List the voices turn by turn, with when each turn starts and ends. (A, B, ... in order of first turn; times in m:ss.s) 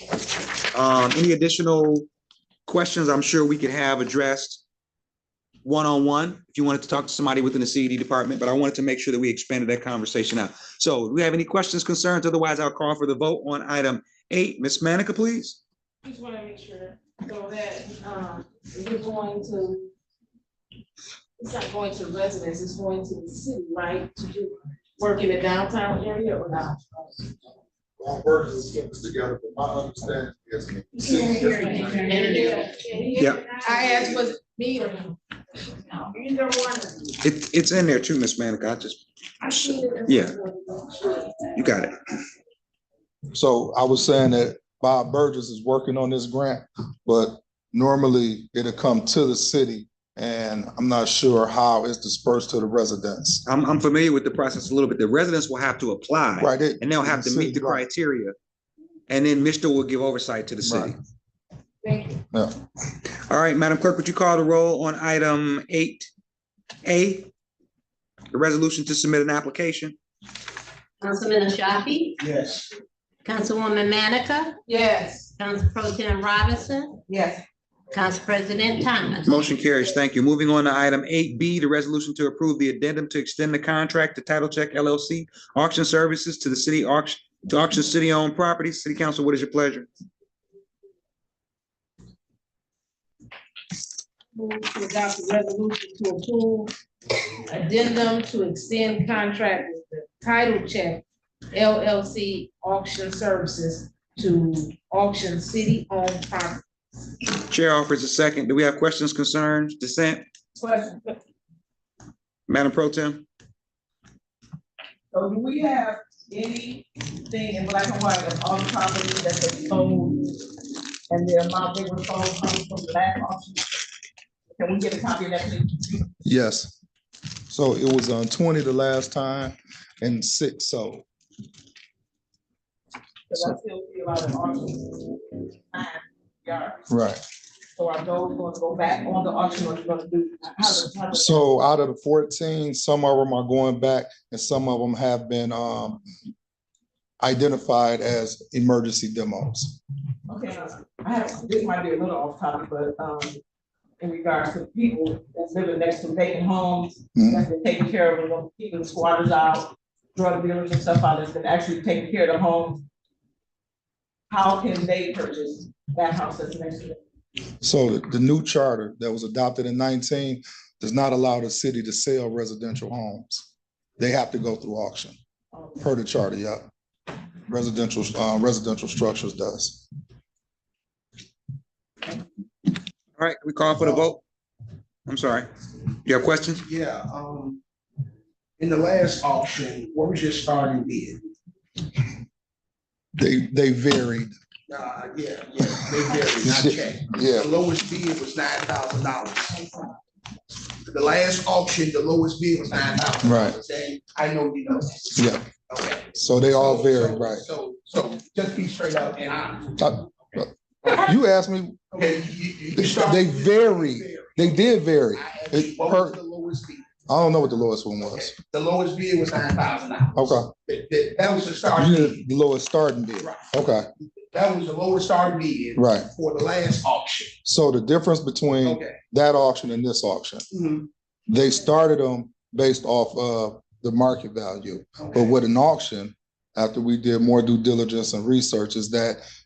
0:00.7-0:02.1 A
0:02.7-0:04.6 A
0:05.6-0:15.6 A
0:16.0-0:19.9 B
0:21.4-0:27.1 B
0:28.0-0:32.2 C
0:31.0-0:35.2 B
0:33.2-0:33.4 A
0:35.8-0:37.2 B
0:37.2-0:40.4 A
0:39.4-0:41.6 B
0:41.6-0:41.9 A
0:43.3-0:53.4 C
0:53.4-0:58.4 A
0:56.4-0:57.8 C
0:59.1-1:01.0 A
1:00.6-1:00.9 C
1:01.8-1:02.2 B
1:03.3-1:06.1 A
1:06.8-1:07.3 A
1:08.3-1:10.0 A
1:11.0-1:12.2 D
1:12.2-1:12.7 E
1:13.2-1:14.6 D
1:14.7-1:15.3 B
1:15.4-1:17.0 D
1:17.1-1:17.4 F
1:17.9-1:19.3 D
1:19.2-1:29.9 A
1:34.4-1:36.7 B
1:37.5-1:46.6 B
1:47.5-1:50.2 A
1:50.6-1:51.2 F
1:52.5-1:53.2 A
1:55.1-2:00.4 F
2:01.1-2:03.8 F
2:04.5-2:06.1 F
2:06.2-2:06.7 C
2:07.5-2:11.1 C
2:13.3-2:16.9 F
2:16.9-2:17.2 C
2:17.8-2:21.6 F
2:21.1-2:26.0 C
2:27.2-2:29.8 C
2:30.3-2:33.4 F
2:34.0-2:42.8 F
2:37.2-2:37.5 C
2:44.3-2:47.0 F
2:47.6-2:55.2 C
2:55.5-2:56.0 F
2:55.8-2:56.6 C
2:57.5-2:59.8 C
3:03.2-3:04.2 A
3:05.1-3:05.5 A
3:06.0-3:06.6 A
3:06.6-3:07.6 E
3:08.6-3:11.2 E
3:13.2-3:14.3 C
3:14.7-3:19.9 E
3:16.4-3:17.5 C
3:20.9-3:31.1 E
3:23.2-3:23.6 C
3:25.2-3:25.4 C
3:26.1-3:27.4 C
3:29.8-3:32.0 C
3:31.9-3:36.9 E
3:32.8-3:36.2 C
3:37.1-3:38.3 C
3:38.0-3:42.2 E
3:40.2-3:40.5 C
3:41.7-3:43.9 C
3:43.2-3:43.5 E
3:44.3-3:47.4 E
3:45.8-3:46.1 C
3:47.4-3:50.4 C
3:48.6-3:49.0 E
3:50.5-3:50.9 E
3:51.3-3:59.2 C
3:55.0-3:55.4 E